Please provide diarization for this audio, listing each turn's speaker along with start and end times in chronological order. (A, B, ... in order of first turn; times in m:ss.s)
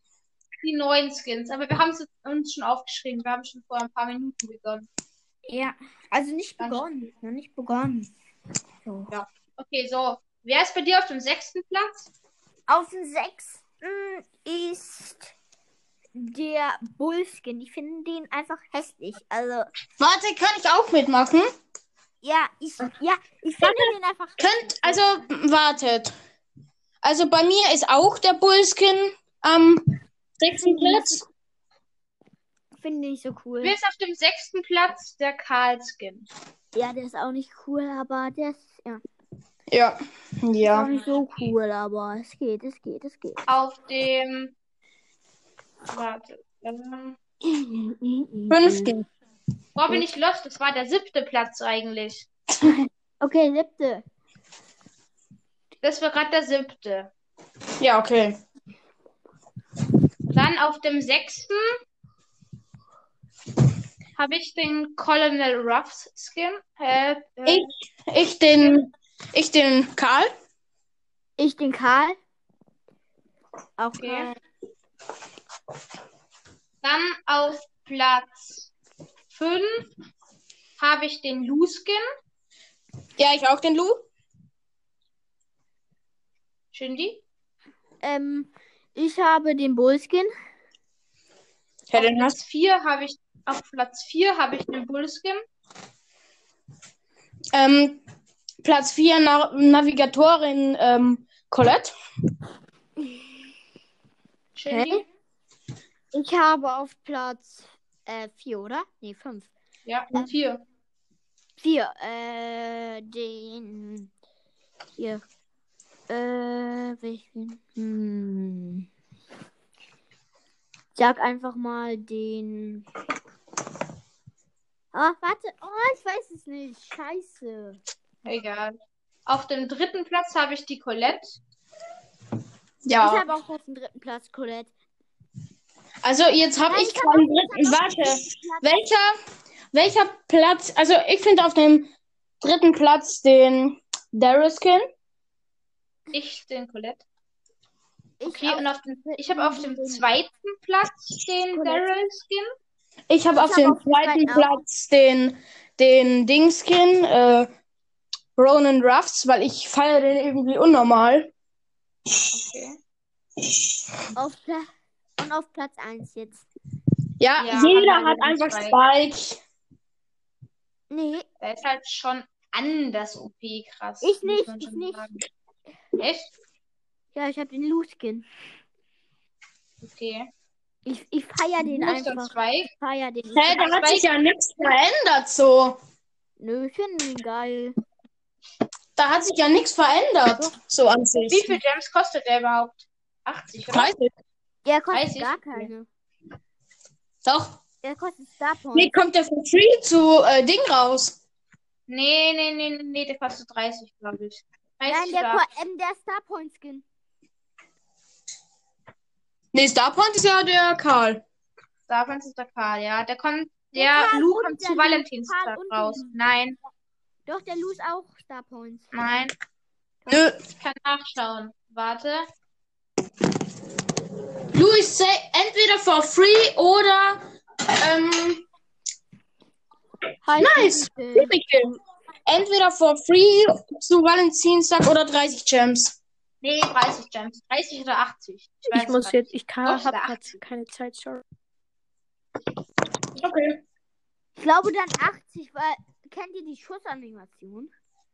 0:00.6-0:04.9 A
0:05.5-0:08.1 B
0:06.6-0:06.8 A
0:08.8-0:09.1 B
0:09.1-0:12.1 A
0:12.7-0:15.3 B
0:16.2-0:19.7 B
0:20.0-0:21.5 C
0:22.2-0:25.0 B
0:23.6-0:26.1 C
0:27.0-0:29.8 C
0:30.4-0:31.2 C
0:30.6-0:31.2 B
0:32.8-0:33.8 B
0:33.6-0:36.3 A
0:36.7-0:39.0 B
0:39.7-0:40.9 C
0:40.7-0:43.4 B
0:43.5-0:44.5 A
0:45.9-0:47.2 A
0:47.4-0:48.9 B
0:48.5-0:49.0 C
0:49.8-0:52.3 A
0:52.6-0:54.0 B
0:55.8-0:57.1 A
0:57.8-0:58.4 C
1:00.3-1:01.6 A
1:04.2-1:07.7 A
1:07.4-1:10.3 C
1:08.6-1:08.8 A
1:11.4-1:12.2 B
1:13.8-1:14.3 B
1:14.0-1:14.3 A
1:16.8-1:18.7 A
1:19.3-1:19.9 A
1:20.8-1:22.0 A
1:23.2-1:24.0 C
1:26.7-1:27.2 A
1:28.0-1:30.3 B
1:31.9-1:32.4 C
1:31.9-1:35.4 A
1:37.5-1:38.0 C
1:38.6-1:41.9 C
1:44.6-1:45.0 A
1:44.6-1:45.0 B
1:46.1-1:49.5 B
1:49.9-1:50.6 A
1:51.6-1:54.1 B
1:55.0-1:55.2 B
1:56.1-1:58.9 B
2:01.0-2:02.9 B
2:04.9-2:07.8 B
2:08.2-2:08.7 A
2:09.2-2:11.4 A
2:12.8-2:13.2 C
2:13.0-2:14.7 B
2:16.0-2:19.1 C
2:16.7-2:18.7 B
2:19.7-2:24.9 C
2:26.1-2:27.0 A
2:28.2-2:30.0 B
2:28.2-2:32.5 A
2:31.5-2:31.9 B
2:33.1-2:37.5 C
2:33.4-2:34.6 B
2:38.4-2:41.3 C
2:42.3-2:42.8 A
2:44.2-2:46.5 B
2:47.2-2:49.4 C
2:47.4-2:48.8 A
2:50.9-2:51.2 B
2:51.4-2:55.2 A
2:54.0-2:55.0 B
2:56.0-2:56.3 A
2:57.1-2:58.2 B
2:59.8-3:00.3 A
3:00.9-3:03.8 B
3:01.6-3:02.7 A
3:03.3-3:05.8 C
3:03.7-3:04.0 A
3:06.4-3:07.8 B
3:09.0-3:11.6 C
3:11.2-3:13.9 A
3:13.7-3:14.1 C
3:14.6-3:15.9 B
3:14.9-3:15.7 A
3:17.2-3:17.6 C
3:17.8-3:18.9 B
3:18.7-3:21.2 C
3:21.9-3:25.4 A
3:24.9-3:26.8 B
3:29.5-3:31.2 C
3:31.9-3:36.6 A
3:33.7-3:36.2 B
3:37.3-3:39.2 B
3:38.9-3:39.3 A
3:40.1-3:40.4 C
3:40.6-3:42.3 A
3:44.5-3:47.2 C
3:47.8-3:48.4 C
3:50.2-3:51.3 B
3:50.4-3:56.0 C
3:56.4-4:00.2 A
3:58.7-4:01.2 D
4:03.1-4:03.6 C
4:04.4-4:07.7 B